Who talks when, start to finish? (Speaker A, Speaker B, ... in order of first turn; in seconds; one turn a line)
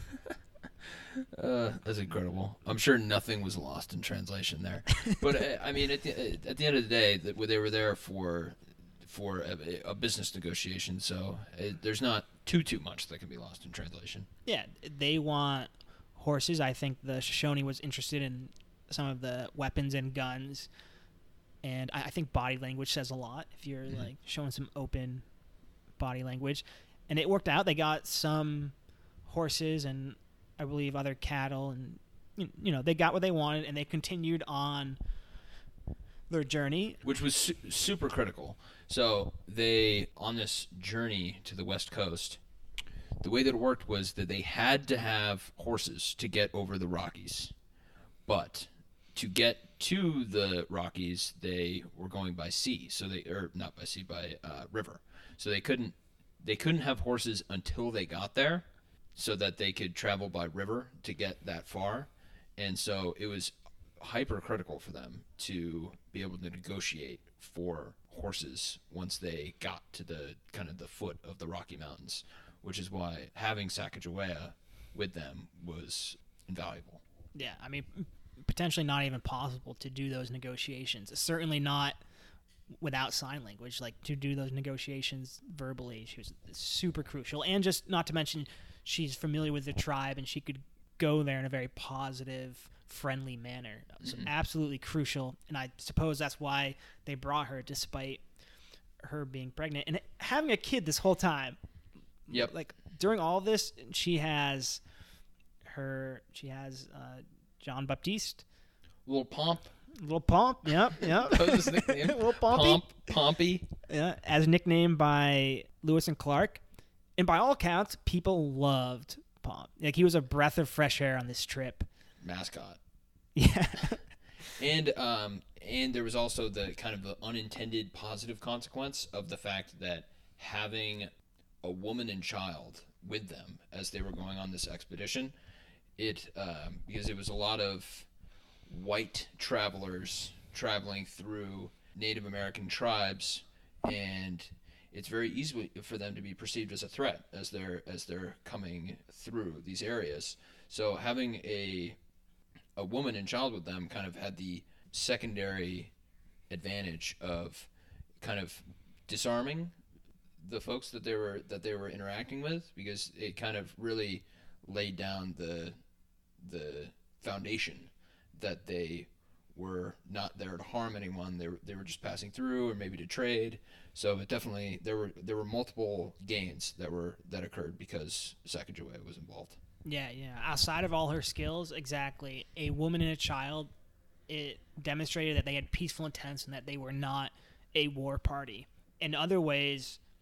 Speaker A: 1.2-14.3
Speaker B: 14.4-20.7
Speaker B: 21.6-25.2
Speaker B: 26.0-28.7
Speaker B: 29.2-35.0
Speaker B: 36.3-37.0
Speaker A: 37.0-42.4
Speaker A: 43.2-47.5
Speaker A: 48.2-77.0
Speaker B: 77.3-82.0
Speaker B: 82.7-98.2
Speaker A: 94.0-94.3
Speaker B: 99.0-101.6
Speaker B: 102.3-104.8
Speaker B: 105.6-108.4
Speaker A: 109.0-109.7
Speaker B: 109.9-112.9
Speaker A: 110.8-113.7
Speaker B: 113.9-116.6
Speaker B: 117.2-121.9
Speaker A: 122.2-122.8
Speaker B: 123.3-124.0
Speaker A: 124.5-131.1
Speaker A: 131.6-135.3
Speaker A: 135.9-138.1
Speaker A: 138.7-152.0
Speaker A: 152.8-155.9
Speaker A: 156.5-159.7
Speaker A: 160.4-165.8
Speaker A: 166.4-179.6
Speaker B: 179.8-183.7
Speaker B: 184.3-190.0